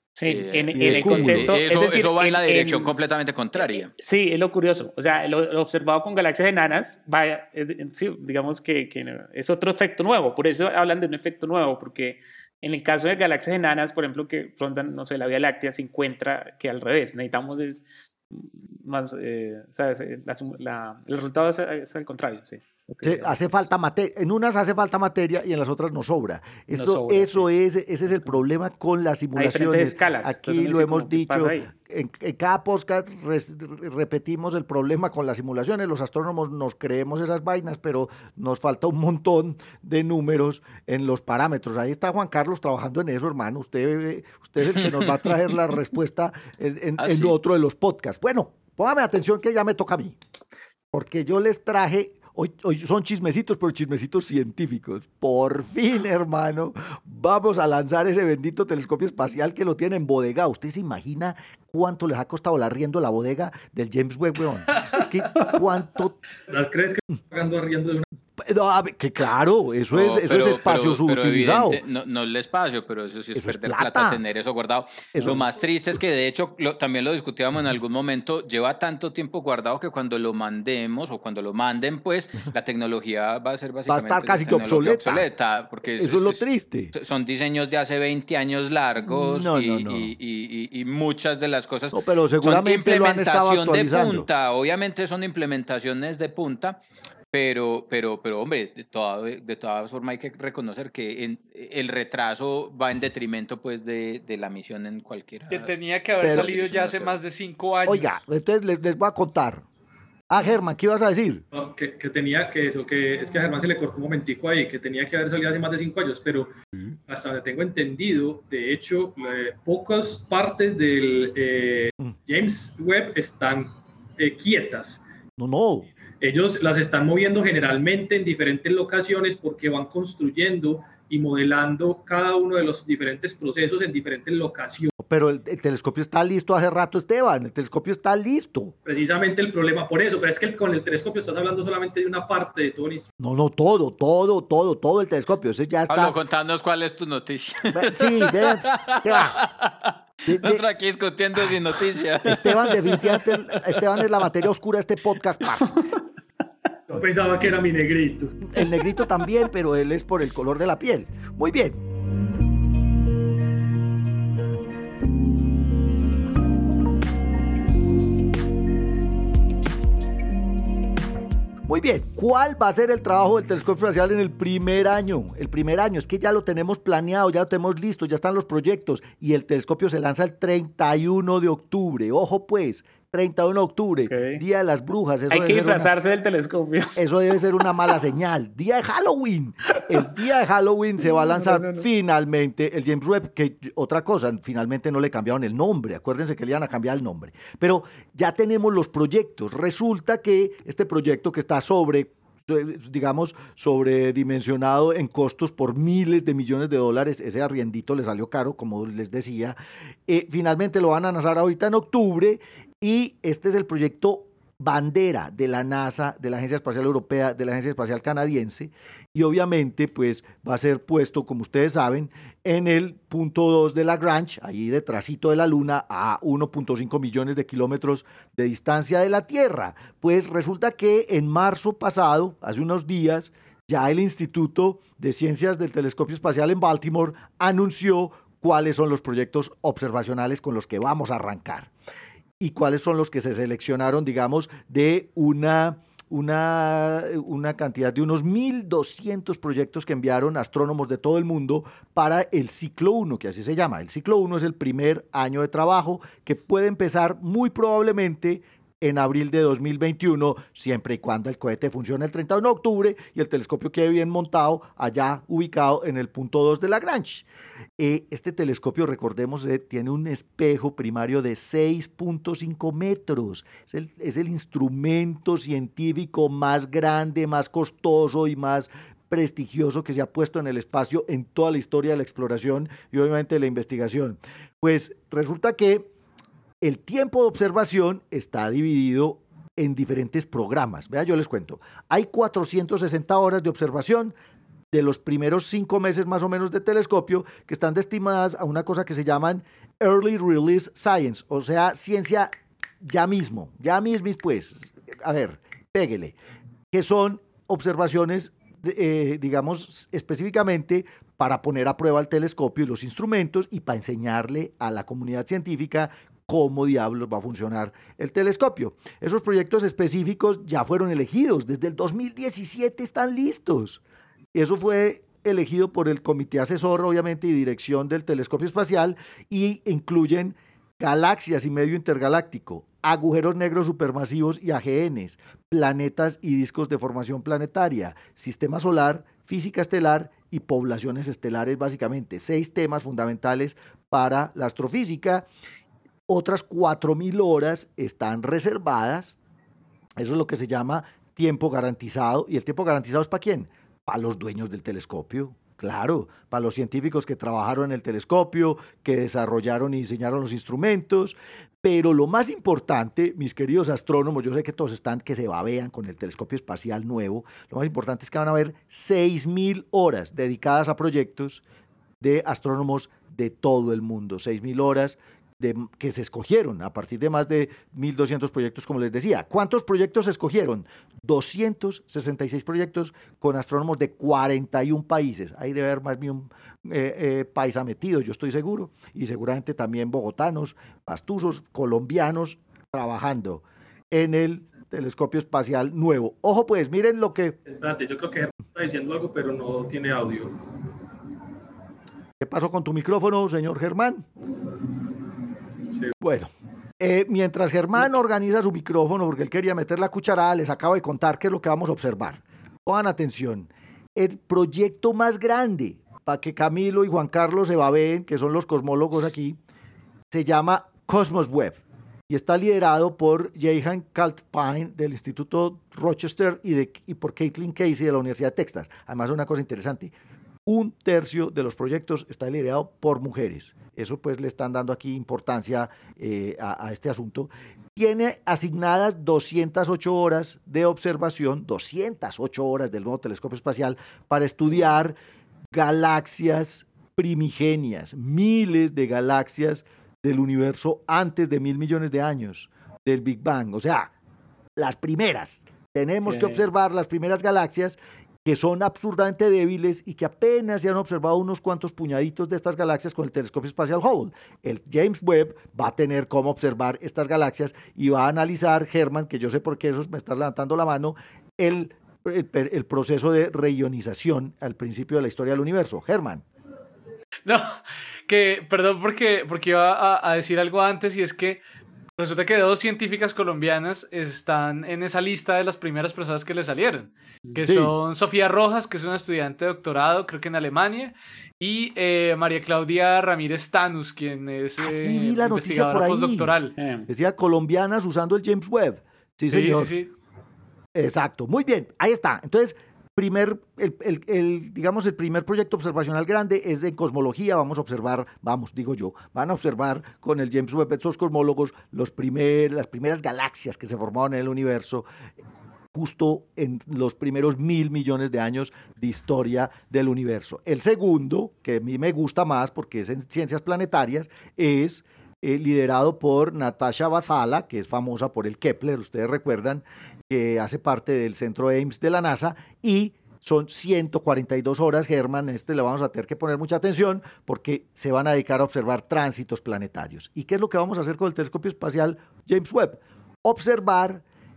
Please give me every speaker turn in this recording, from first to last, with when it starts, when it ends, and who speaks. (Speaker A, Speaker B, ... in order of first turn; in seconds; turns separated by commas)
Speaker A: 0.1-2.9, Speaker B: 0.2-3.9, Speaker C: 0.7-1.5, Speaker A: 3.5-23.3, Speaker C: 23.0-50.2, Speaker A: 26.7-27.5, Speaker A: 28.1-28.4, Speaker A: 29.4-31.7, Speaker B: 47.0-47.3, Speaker C: 50.9-66.2, Speaker D: 66.5-68.1, Speaker C: 68.4-71.8, Speaker B: 69.9-96.8, Speaker C: 73.3-74.2, Speaker C: 75.1-75.4, Speaker C: 83.9-85.3, Speaker C: 86.0-86.9, Speaker C: 89.0-90.1, Speaker C: 91.9-94.3, Speaker B: 97.3-105.7, Speaker E: 105.5-108.2, Speaker C: 106.2-106.5, Speaker B: 106.2-107.2, Speaker C: 107.9-109.6, Speaker C: 110.3-111.4, Speaker D: 111.5-116.5, Speaker D: 117.1-125.0, Speaker C: 125.4-125.9, Speaker D: 126.2-134.9, Speaker C: 135.0-138.7, Speaker D: 138.8-143.1, Speaker C: 143.2-146.2, Speaker B: 145.9-153.6, Speaker C: 147.7-149.4, Speaker C: 150.2-150.6, Speaker C: 152.2-155.7, Speaker D: 156.9-158.4, Speaker C: 158.5-161.8, Speaker C: 171.7-185.9, Speaker A: 184.1-184.4, Speaker A: 185.3-187.0, Speaker C: 186.9-241.7, Speaker A: 191.1-191.8, Speaker C: 242.4-267.2, Speaker C: 267.8-285.9, Speaker C: 286.6-294.1, Speaker C: 294.7-302.3, Speaker C: 302.8-306.2, Speaker C: 306.7-323.8, Speaker C: 324.3-345.2, Speaker C: 346.1-349.1, Speaker C: 350.0-371.4, Speaker C: 372.0-397.4, Speaker D: 397.4-400.4, Speaker C: 402.2-404.1, Speaker C: 406.0-419.4, Speaker C: 420.1-429.9, Speaker C: 430.4-445.0, Speaker C: 445.5-453.9, Speaker C: 454.6-476.2, Speaker A: 456.0-456.4, Speaker E: 477.2-477.6, Speaker E: 478.1-481.4, Speaker E: 482.0-496.6, Speaker C: 487.4-487.7, Speaker C: 494.6-496.3, Speaker A: 496.6-496.9, Speaker C: 496.9-499.7, Speaker E: 499.3-499.9, Speaker C: 500.7-514.9, Speaker C: 515.7-544.0